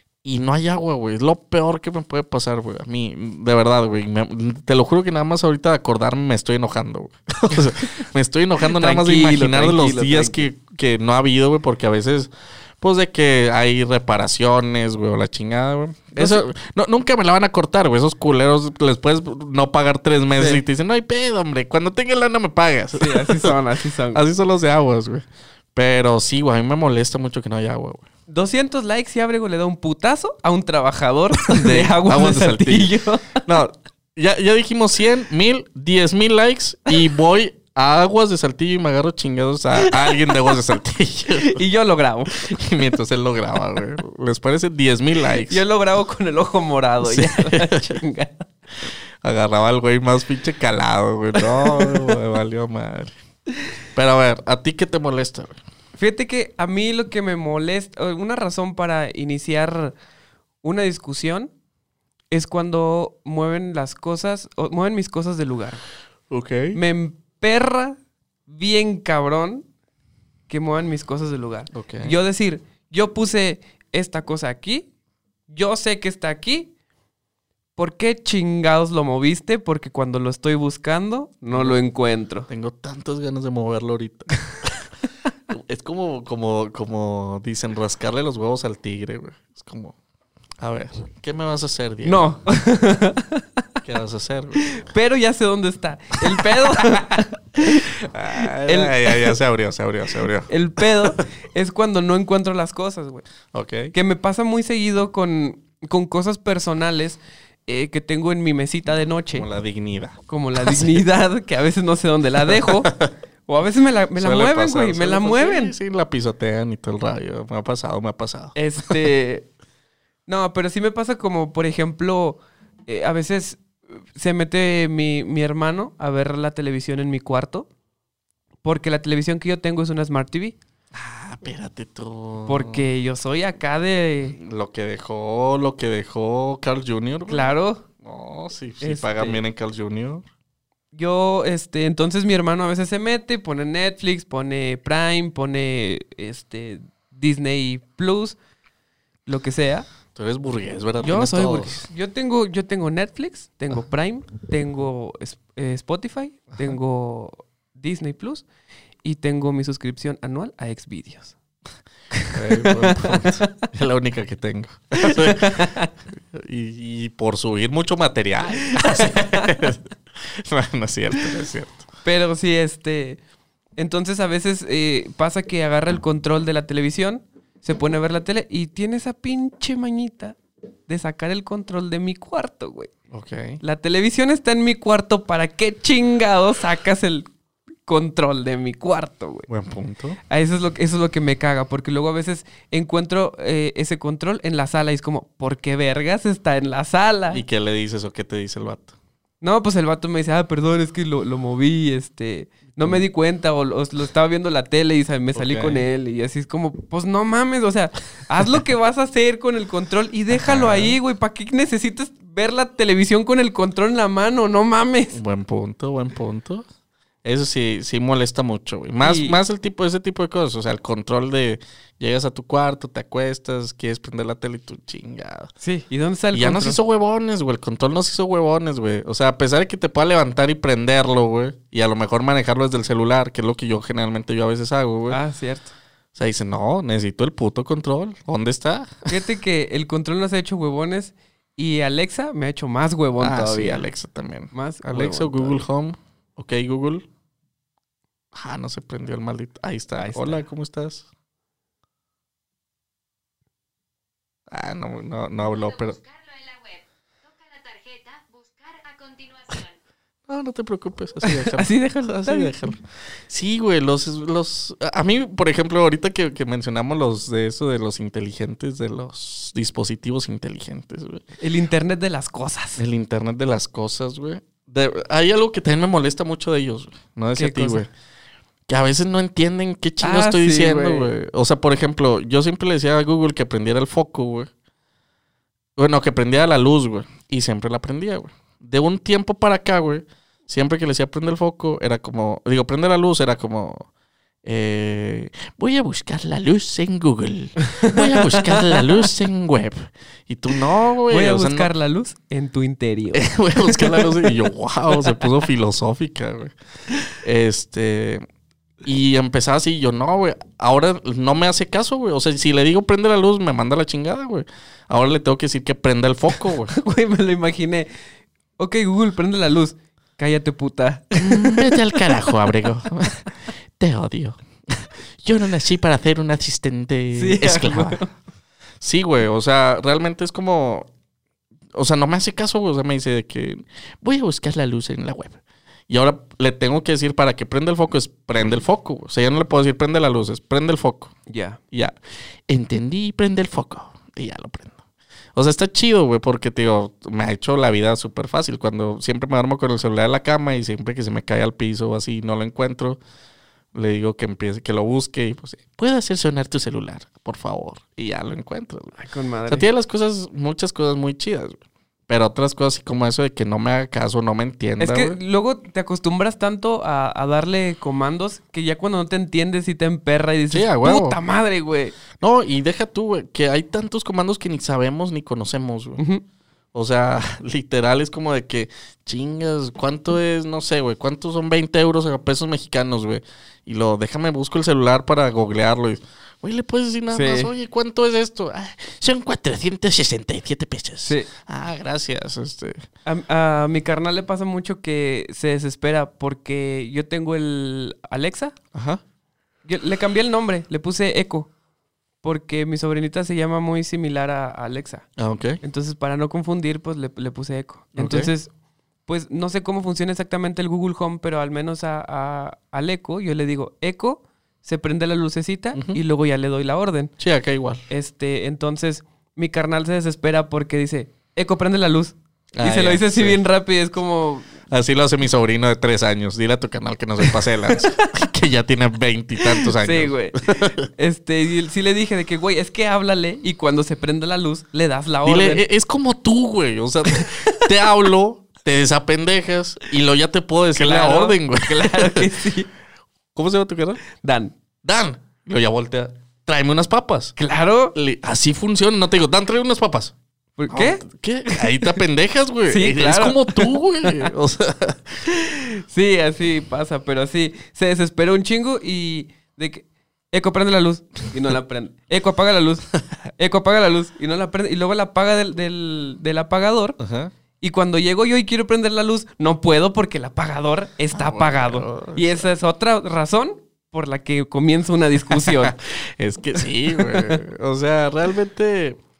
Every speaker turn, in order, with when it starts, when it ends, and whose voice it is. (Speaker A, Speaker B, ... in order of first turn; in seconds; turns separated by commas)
Speaker A: 0.2-23.6, Speaker B: 8.6-10.5, Speaker B: 16.1-16.4, Speaker B: 20.4-20.6, Speaker B: 22.9-24.2, Speaker A: 24.1-28.0, Speaker B: 28.3-33.4, Speaker A: 31.4-32.9, Speaker A: 33.4-41.6, Speaker B: 39.8-40.6, Speaker B: 41.3-42.6, Speaker A: 42.4-45.6, Speaker B: 45.5-48.5, Speaker A: 47.0-48.0, Speaker A: 49.2-53.1, Speaker B: 51.4-52.1, Speaker A: 53.9-55.6, Speaker B: 56.0-60.0, Speaker B: 60.6-61.5, Speaker B: 62.3-65.8, Speaker A: 66.3-66.8, Speaker B: 66.7-69.7, Speaker B: 70.5-74.9, Speaker A: 71.7-72.2, Speaker B: 75.5-76.7, Speaker B: 77.8-82.5, Speaker A: 81.5-81.8, Speaker A: 82.5-84.8, Speaker A: 85.5-89.9, Speaker A: 90.6-92.4, Speaker B: 92.0-93.6, Speaker A: 93.8-94.7, Speaker B: 94.6-99.4, Speaker A: 96.4-97.0, Speaker A: 97.6-100.5, Speaker B: 100.5-103.2, Speaker A: 103.5-103.9, Speaker B: 103.9-109.5, Speaker A: 109.3-111.0, Speaker B: 110.3-112.9, Speaker A: 112.5-113.1, Speaker B: 113.5-115.7, Speaker A: 114.2-118.9, Speaker B: 118.5-119.5, Speaker B: 120.3-127.7, Speaker B: 128.6-130.6, Speaker A: 130.9-132.8, Speaker B: 132.5-134.4, Speaker A: 134.3-140.2, Speaker B: 137.3-137.8, Speaker B: 138.8-139.4, Speaker B: 140.9-148.4, Speaker B: 149.2-149.9, Speaker A: 150.1-151.9, Speaker B: 151.0-158.4, Speaker B: 159.0-161.3, Speaker B: 162.1-163.5, Speaker A: 162.3-165.7, Speaker B: 165.0-165.9, Speaker A: 166.3-171.8, Speaker B: 168.6-169.5, Speaker B: 172.0-173.2, Speaker B: 173.8-182.9, Speaker A: 183.1-183.6, Speaker B: 183.6-187.3, Speaker B: 187.8-189.5, Speaker A: 189.5-190.2, Speaker B: 190.3-197.4, Speaker A: 197.3-198.9, Speaker B: 199.4-215.2, Speaker A: 205.3-205.8, Speaker A: 210.3-211.0, Speaker A: 215.1-216.6, Speaker A: 217.2-225.5, Speaker B: 219.0-219.4, Speaker B: 225.6-226.8, Speaker A: 226.3-235.2, Speaker B: 235.1-235.7, Speaker A: 236.1-239.1, Speaker B: 239.1-243.9, Speaker A: 243.2-247.0, Speaker B: 244.5-245.6, Speaker A: 248.3-251.1, Speaker B: 250.0-250.4, Speaker A: 254.5-255.9, Speaker C: 255.4-259.8, Speaker A: 260.3-271.2, Speaker B: 261.2-262.5, Speaker B: 271.4-272.8, Speaker A: 272.8-277.9, Speaker B: 277.4-277.8, Speaker A: 278.7-284.5, Speaker B: 280.0-281.1, Speaker A: 285.8-293.9, Speaker A: 294.4-301.7, Speaker B: 297.8-299.0, Speaker B: 301.1-304.3, Speaker A: 303.1-306.5, Speaker A: 307.2-308.2, Speaker A: 308.8-316.7, Speaker B: 316.7-317.9, Speaker B: 318.6-321.8, Speaker A: 321.2-323.3, Speaker A: 323.8-328.0, Speaker B: 327.1-328.1, Speaker A: 328.8-330.9, Speaker A: 331.7-341.1, Speaker B: 341.3-341.6, Speaker A: 342.5-344.8, Speaker A: 345.3-353.0, Speaker A: 353.7-359.0, Speaker B: 359.0-359.6, Speaker A: 359.5-365.2, Speaker B: 364.8-371.9, Speaker A: 370.5-371.2, Speaker A: 372.2-376.0, Speaker B: 376.0-376.2, Speaker A: 376.7-392.8, Speaker B: 387.1-387.5, Speaker B: 391.0-391.3, Speaker B: 393.0-398.5, Speaker A: 398.7-399.0, Speaker B: 399.6-401.5, Speaker B: 402.2-405.1, Speaker A: 405.2-405.6, Speaker B: 405.6-408.5, Speaker A: 407.9-408.3, Speaker B: 409.1-417.1, Speaker A: 415.7-416.0, Speaker A: 417.2-417.8, Speaker B: 417.9-424.5, Speaker A: 422.5-423.4, Speaker A: 424.7-430.9, Speaker B: 427.2-428.1, Speaker B: 429.5-435.6, Speaker A: 435.2-442.3, Speaker B: 440.8-442.7, Speaker A: 443.3-444.0, Speaker B: 444.1-444.5, Speaker A: 444.8-447.3, Speaker B: 447.4-447.9, Speaker A: 447.9-450.1, Speaker B: 450.6-451.0, Speaker A: 450.7-455.2, Speaker B: 451.5-452.0, Speaker B: 452.7-454.3, Speaker B: 455.2-462.8, Speaker B: 463.4-467.0, Speaker A: 467.0-467.3, Speaker B: 467.6-475.7, Speaker A: 471.1-472.5, Speaker A: 475.4-479.0, Speaker B: 476.6-477.4